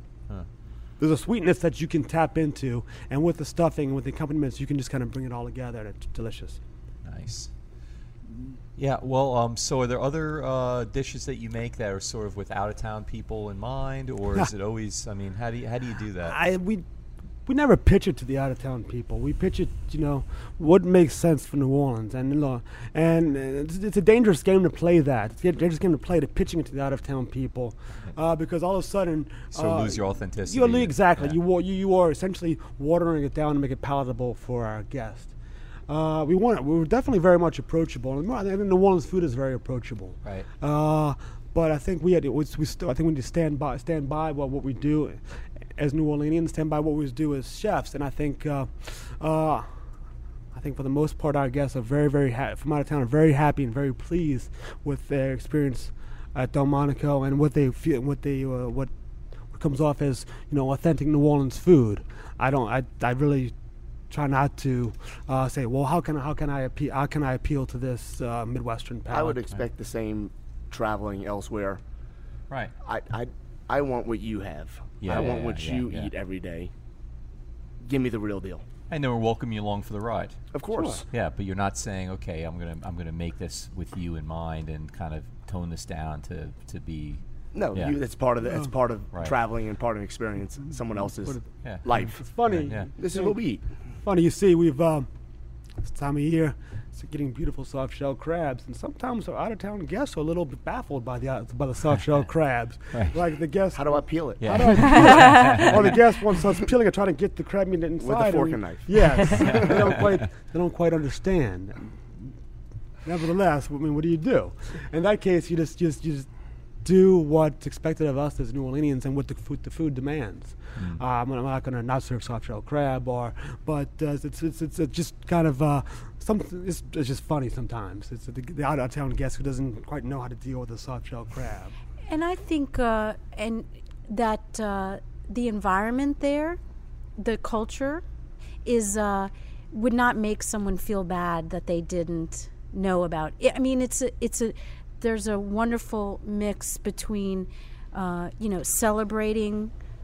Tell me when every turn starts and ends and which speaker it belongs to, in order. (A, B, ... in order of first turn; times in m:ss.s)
0:01.0-0:06.6 A
0:07.0-0:07.5 B
0:08.8-0:16.4 B
0:16.2-0:16.8 A
0:17.5-0:35.3 A
0:29.5-0:31.4 B
0:35.9-0:49.8 A
0:50.5-0:58.9 A
0:59.5-1:03.5 A
1:04.1-1:09.4 A
1:09.1-1:11.8 C
1:12.8-1:16.7 C
1:15.0-1:16.1 B
1:17.8-1:18.6 C
1:18.9-1:20.5 B
1:20.5-1:21.0 C
1:20.7-1:21.0 A
1:21.1-1:27.2 B
1:27.5-1:32.2 C
1:31.2-1:33.4 A
1:31.6-1:31.9 B
1:32.5-1:32.9 B
1:33.0-1:33.6 C
1:34.0-1:35.1 A
1:35.8-1:52.1 A
1:43.8-1:44.7 C
1:44.4-1:45.8 B
1:45.0-1:45.6 D
1:48.0-1:49.7 C
1:49.5-1:49.7 B
1:53.0-2:11.7 A
2:12.1-2:16.6 D
2:17.2-2:18.0 D
2:18.6-2:29.7 D